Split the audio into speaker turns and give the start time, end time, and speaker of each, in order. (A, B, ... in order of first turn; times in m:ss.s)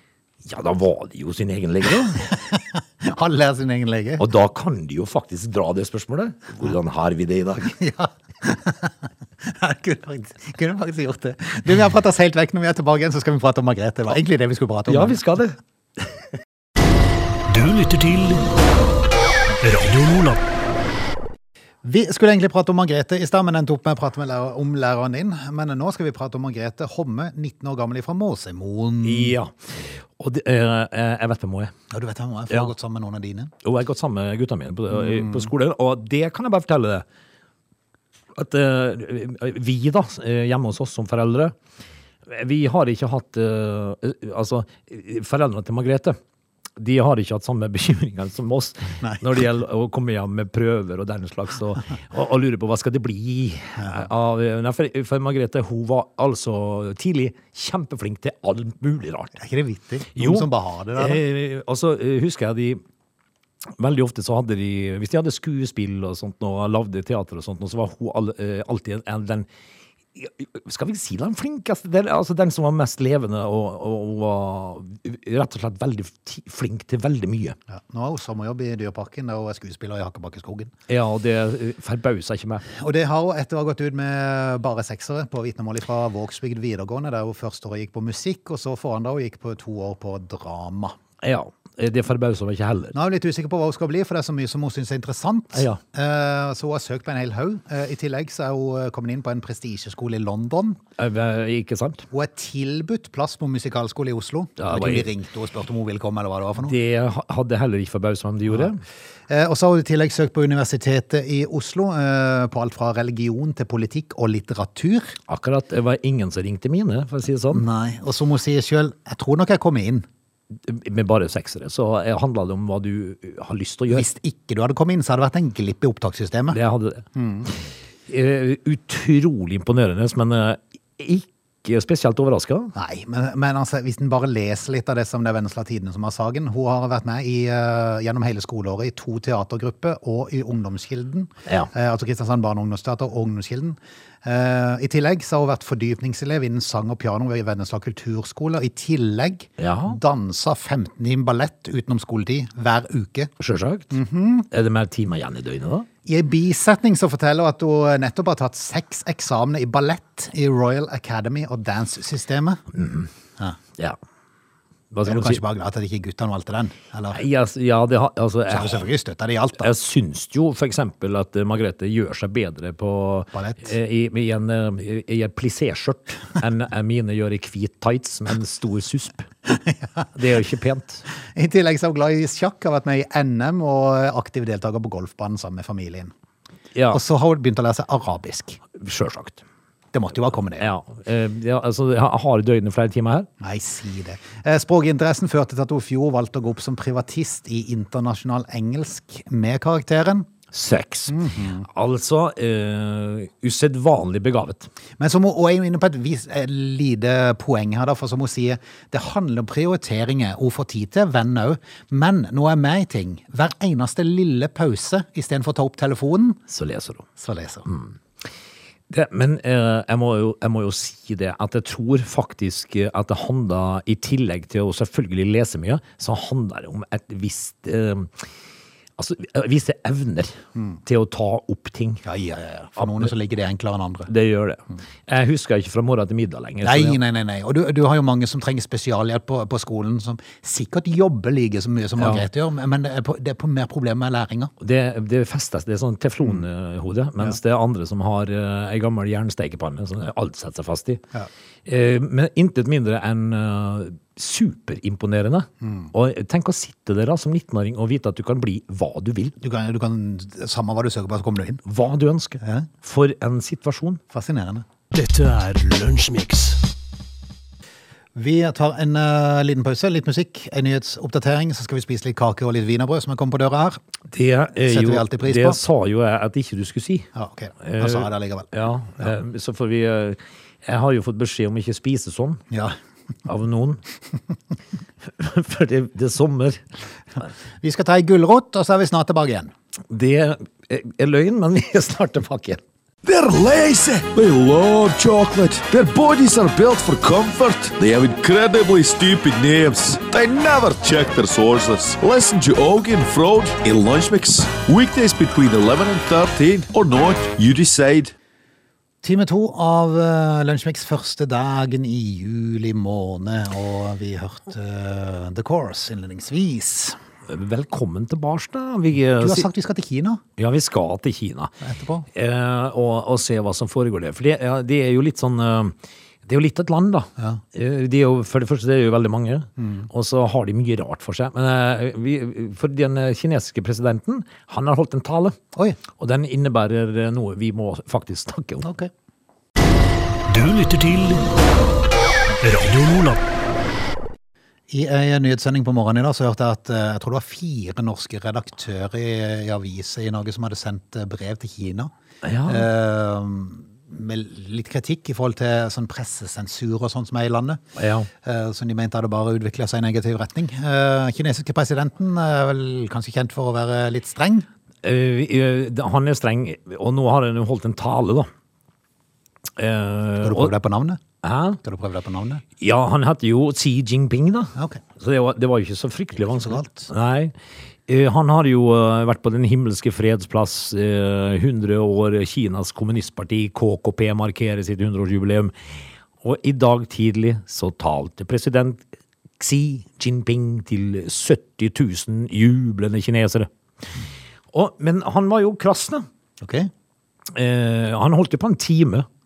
0:00.4-0:02.3 A
0:02.1-0:04.3 B
0:04.2-0:07.8 A
0:07.8-0:15.2 B
0:14.9-0:16.1 A
0:17.5-0:18.5 C
0:19.6-0:20.4 C
0:21.8-0:29.4 B
0:29.0-0:31.7 A
0:31.9-0:33.5 B
0:33.6-0:37.0 A
0:34.9-0:35.5 B
0:38.4-0:41.6 A
0:42.3-0:46.2 A
0:46.8-0:59.4 A
0:53.8-0:54.0 B
0:59.4-1:01.2 B
1:00.1-1:02.8 A
1:03.8-1:09.5 A
1:10.2-1:17.6 A
1:17.7-1:20.7 B
1:20.9-1:22.6 A
1:22.6-1:31.0 B
1:31.2-1:33.0 A
1:32.9-1:40.8 B
1:35.5-1:35.8 A
1:41.0-1:42.1 A
1:42.1-1:46.8 B
1:44.6-1:45.1 A
1:46.6-1:48.8 A
1:49.3-1:55.2 B
1:55.3-1:57.6 A
1:57.5-2:00.1 B
2:00.6-2:04.1 A
2:03.9-2:06.6 B
2:06.5-2:07.1 A
2:07.2-2:07.5 B
2:08.1-2:12.7 A
2:12.8-2:33.3 B
2:29.6-2:30.0 A
2:33.4-2:34.0 A
2:33.9-2:34.5 B
2:34.5-2:35.9 A
2:36.1-2:42.6 B
2:42.7-2:43.1 A
2:44.9-2:45.4 A
2:45.0-2:47.2 B
2:47.1-2:48.9 A
2:48.5-2:49.7 B
2:49.6-2:59.3 A
2:53.3-2:53.7 B
2:59.5-3:00.1 B
3:00.2-3:01.0 A
3:01.4-3:06.1 B
3:06.7-3:07.0 A
3:06.9-3:08.6 B
3:08.8-3:09.4 A
3:09.9-3:10.7 B
3:10.6-3:13.3 A
3:13.4-3:20.3 B
3:20.5-3:24.7 A
3:21.1-3:21.7 B
3:25.0-3:36.4 B
3:36.5-3:37.1 A
3:37.2-3:37.7 B
3:37.7-3:38.0 A
3:38.9-3:48.3 A
3:49.0-3:52.0 A
3:52.0-3:54.1 B
3:52.8-3:53.1 A
3:54.1-3:57.0 A
3:56.6-4:04.5 B
4:02.0-4:02.2 A
4:04.6-4:11.0 A
4:11.7-4:19.3 A
4:15.6-4:15.9 B
4:19.4-4:21.6 B
4:21.7-4:24.0 A
4:22.4-4:22.7 B
4:24.1-4:24.6 B
4:24.9-4:26.6 C
4:28.2-4:33.8 B
4:34.1-4:37.1 A
4:34.6-4:35.6 B
4:37.2-4:39.1 B
4:37.6-4:42.4 A
4:43.3-4:43.8 A
4:45.1-4:46.6 A
4:47.6-4:49.5 B
4:49.9-4:52.6 A
4:53.0-5:08.1 D
5:09.0-5:17.0 B
5:17.3-5:19.5 A
5:19.2-5:20.2 B
5:20.4-5:21.5 A
5:21.6-5:22.1 B
5:22.1-5:35.4 A
5:29.6-5:29.9 B
5:35.9-5:38.7 A
5:38.6-5:38.9 B
5:40.3-5:41.3 C
5:42.4-5:43.2 C
5:44.7-5:51.9 B
5:52.2-5:52.7 A
5:52.5-5:57.6 B
5:57.8-5:58.1 A
5:58.2-6:04.5 B
6:04.8-6:08.3 A
6:09.6-6:10.5 A
6:10.2-6:11.0 B
6:11.2-6:11.6 A
6:11.6-6:12.4 B
6:12.6-6:17.3 A
6:14.6-6:14.8 B
6:16.2-6:16.9 B
6:17.9-6:25.5 A
6:26.2-6:28.8 A
6:29.4-6:33.5 A
6:34.5-6:36.0 A
6:36.4-6:36.7 B
6:37.3-6:39.1 A